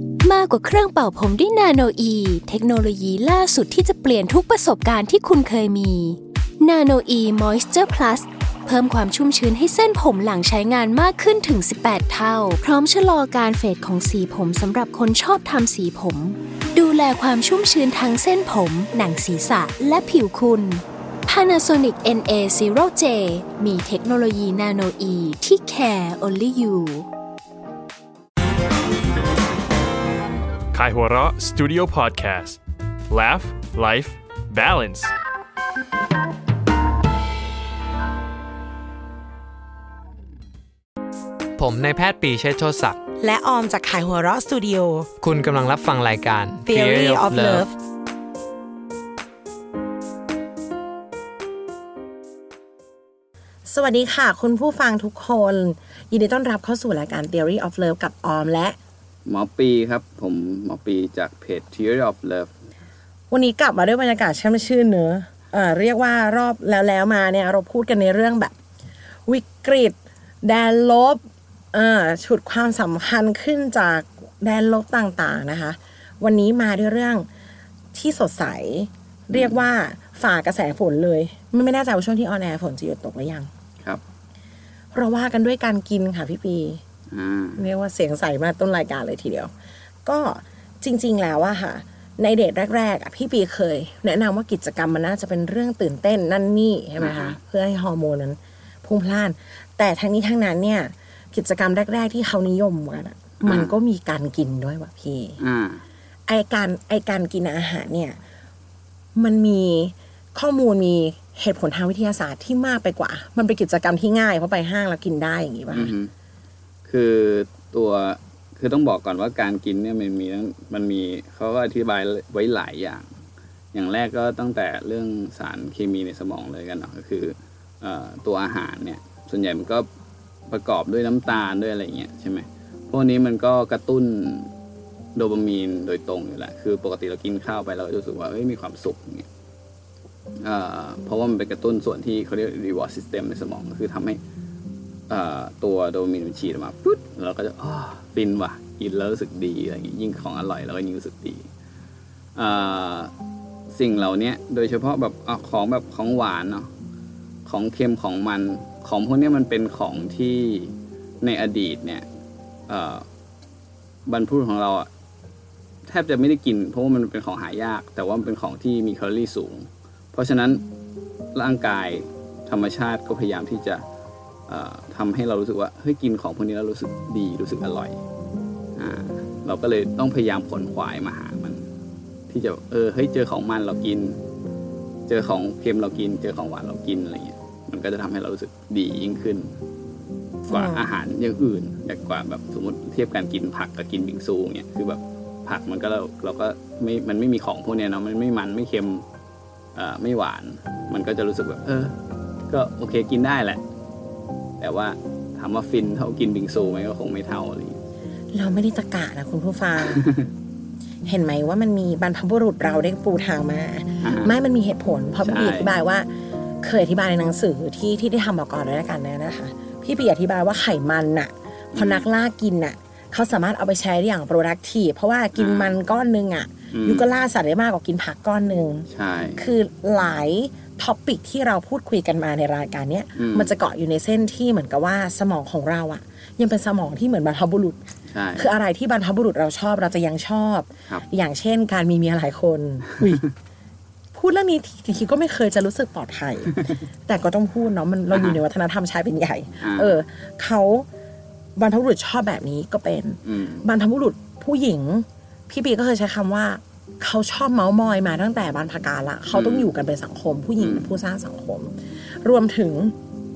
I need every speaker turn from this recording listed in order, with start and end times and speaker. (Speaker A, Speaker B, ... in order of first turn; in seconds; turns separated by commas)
Speaker A: 0.2-27.1, Speaker B: 30.7-32.6, Speaker B: 33.1-35.1, Speaker C: 41.6-43.0, Speaker D: 43.2-45.1, Speaker C: 45.2-47.6, Speaker D: 46.6-47.7, Speaker D: 53.7-58.8, Speaker E: 59.2-62.5, Speaker D: 63.3-68.5, Speaker D: 69.3-71.2, Speaker D: 71.7-77.3, Speaker D: 77.9-83.5, Speaker E: 79.3-79.6, Speaker D: 84.9-86.8, Speaker E: 87.1-87.6, Speaker D: 87.6-89.5, Speaker D: 90.0-105.4, Speaker E: 97.0-97.4, Speaker E: 103.4-103.7, Speaker E: 105.4-105.8, Speaker D: 106.3-108.2, Speaker D: 109.2-115.9, Speaker E: 115.7-116.1, Speaker E: 116.8-123.1, Speaker E: 123.7-129.9, Speaker E: 130.5-134.5, Speaker E: 135.2-139.3, Speaker E: 140.4-144.2, Speaker E: 145.1-151.4, Speaker E: 152.3-153.1, Speaker E: 153.7-156.7, Speaker E: 157.4-162.0, Speaker E: 162.7-163.0, Speaker E: 164.1-164.9, Speaker E: 165.9-170.6, Speaker E: 171.3-173.8, Speaker E: 174.5-178.0, Speaker E: 178.8-181.6, Speaker E: 182.3-184.2, Speaker E: 185.1-189.5, Speaker E: 190.5-199.0, Speaker D: 190.5-190.8, Speaker E: 199.8-201.9, Speaker E: 202.5-203.6, Speaker E: 204.6-207.8, Speaker D: 208.3-210.1, Speaker E: 209.9-210.2, Speaker D: 211.0-216.1, Speaker E: 214.0-214.3, Speaker E: 215.2-215.7, Speaker D: 216.6-237.8, Speaker E: 221.7-222.1, Speaker E: 225.3-225.8, Speaker E: 226.7-227.1, Speaker E: 228.9-229.4, Speaker E: 233.2-233.5, Speaker E: 238.1-238.5, Speaker D: 238.3-243.3, Speaker D: 244.1-250.9, Speaker E: 248.1-248.4, Speaker E: 249.6-250.0, Speaker D: 251.6-262.9, Speaker E: 253.2-253.6, Speaker E: 259.3-259.7, Speaker E: 260.6-260.9